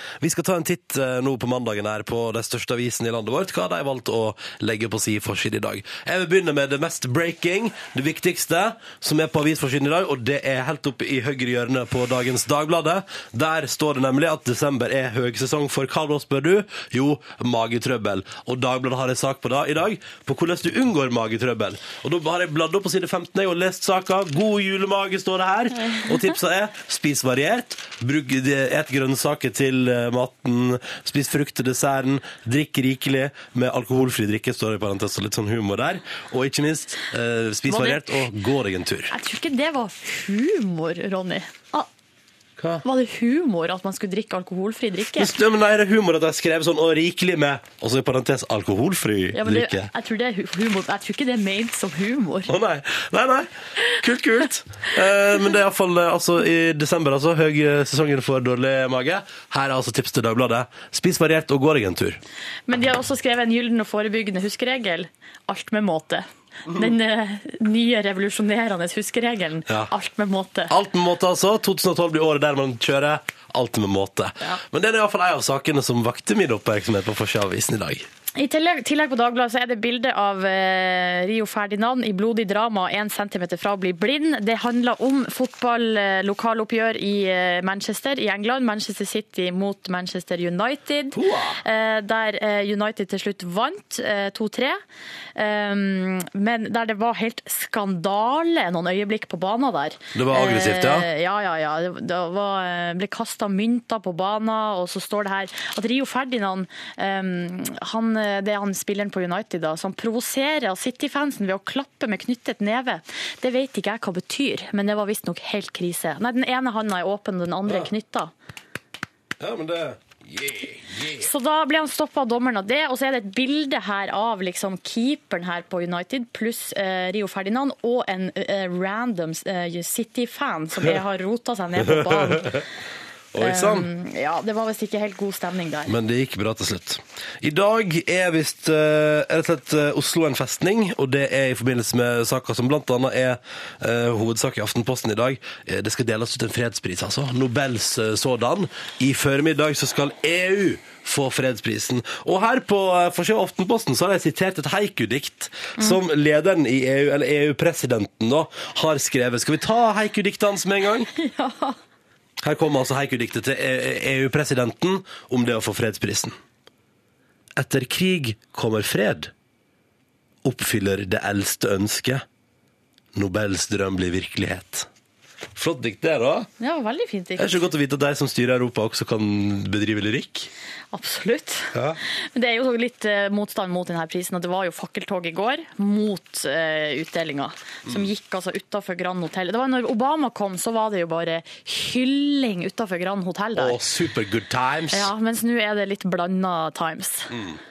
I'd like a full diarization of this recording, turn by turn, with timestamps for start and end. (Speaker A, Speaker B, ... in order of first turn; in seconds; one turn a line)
Speaker A: 0.2-39.1
Speaker B: 37.7-38.0
Speaker B: 39.1-41.9
Speaker A: 42.6-42.8
Speaker B: 42.9-45.2
Speaker A: 45.1-49.9
Speaker B: 49.4-52.5
Speaker A: 52.5-62.2
Speaker B: 62.7-66.2
Speaker B: 66.8-70.7
Speaker A: 70.7-78.0
Speaker B: 78.4-91.1
Speaker A: 91.1-91.6
Speaker B: 91.6-94.7
Speaker B: 95.4-118.3
Speaker A: 100.1-101.1
Speaker A: 119.4-121.3
Speaker B: 121.2-132.5
Speaker A: 131.8-132.6
Speaker A: 133.3-133.9
Speaker B: 133.4-135.9
Speaker A: 135.8-161.1
Speaker B: 161.2-161.8
Speaker A: 162.4-166.3
Speaker A: 167.6-169.3
Speaker A: 170.4-172.2
Speaker A: 173.1-174.9
Speaker A: 175.5-176.5
Speaker B: 176.6-177.4
Speaker A: 177.4-180.5
Speaker B: 180.9-181.7
Speaker A: 181.7-182.0
Speaker B: 182.3-193.7
Speaker A: 193.5-195.1
Speaker B: 194.9-197.3
Speaker A: 197.3-197.6